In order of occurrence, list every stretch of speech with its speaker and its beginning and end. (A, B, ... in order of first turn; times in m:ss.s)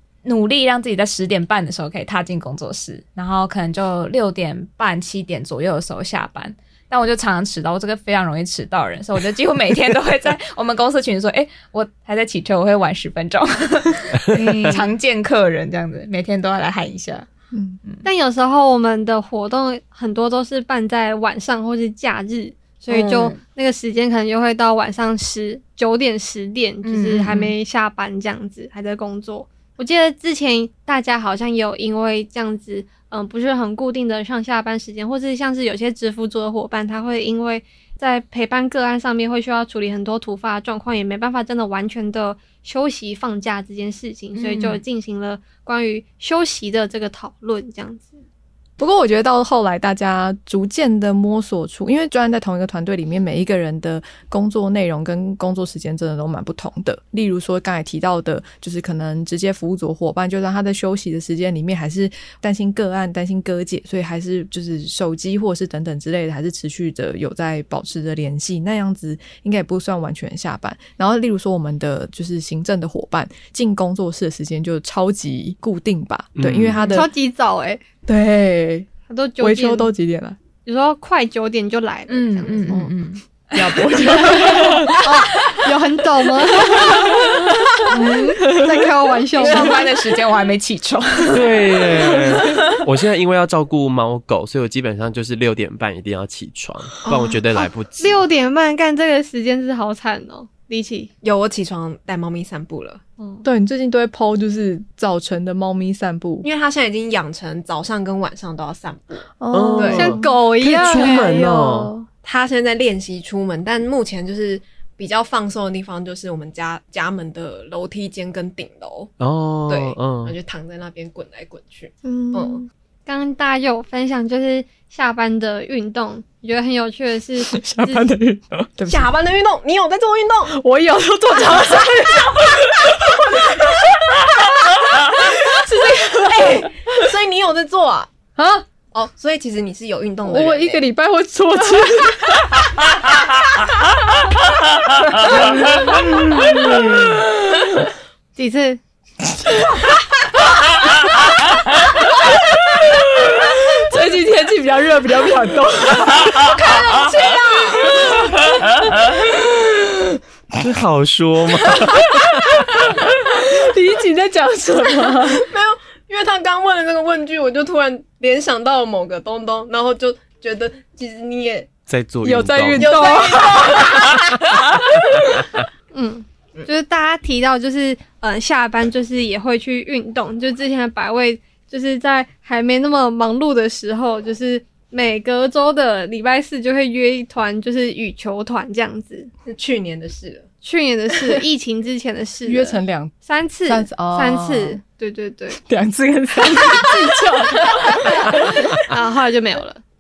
0:00.2-0:17.3 A
0:14.3-0:14.9 B
0:17.5-0:17.8 C
0:18.0-0:48.2 B
0:22.9-0:23.4 A
0:26.8-0:27.5 A
0:48.8-1:17.1 C
1:16.4-1:17.0 D
1:16.8-1:17.8 B
1:18.1-1:18.9 C
1:19.1-1:19.9 B
1:19.4-1:20.4 C
1:20.7-1:22.8 B
1:22.1-1:25.6 A
1:23.5-1:25.3 C
1:24.2-1:27.4 B
1:27.9-1:28.9 C
1:27.9-1:29.9 B
1:29.4-1:31.5 A
1:29.4-1:29.8 C
1:31.3-1:38.2 D
1:38.0-1:41.1 B
1:41.2-1:43.0 E
1:43.2-1:43.4 B
1:43.4-1:46.5 C
1:46.4-1:50.1 E
1:49.4-1:50.3 C
1:49.5-1:51.9 D
1:50.0-1:52.1 B
1:50.9-1:51.3 C
1:52.2-1:59.1 E
1:59.2-2:00.4 D
1:59.7-2:02.6 E
2:02.0-2:02.6 C
2:03.1-2:08.1 B
2:07.5-2:09.1 C
2:08.9-2:10.5 E
2:10.5-2:16.9 C
2:16.3-2:18.1 E
2:18.4-2:18.7 C
2:18.9-2:20.8 E
2:20.2-2:22.6 C
2:25.3-2:27.1 C
2:28.4-2:28.8 B
2:32.8-2:36.7 C
2:36.6-2:38.0 E
2:37.9-2:38.5 C
2:39.1-2:40.2 C
2:40.6-2:42.7 D
2:41.9-2:45.5 C
2:45.3-2:51.7 E
2:51.9-2:52.9 D
2:52.2-2:54.3 C
2:52.8-2:54.3 E
2:55.9-3:09.3 B
3:09.4-3:10.5 E
3:10.6-3:15.6 B
3:12.5-3:13.1 C
3:13.7-3:14.8 C
3:15.6-3:18.7 C
3:18.0-3:19.8 B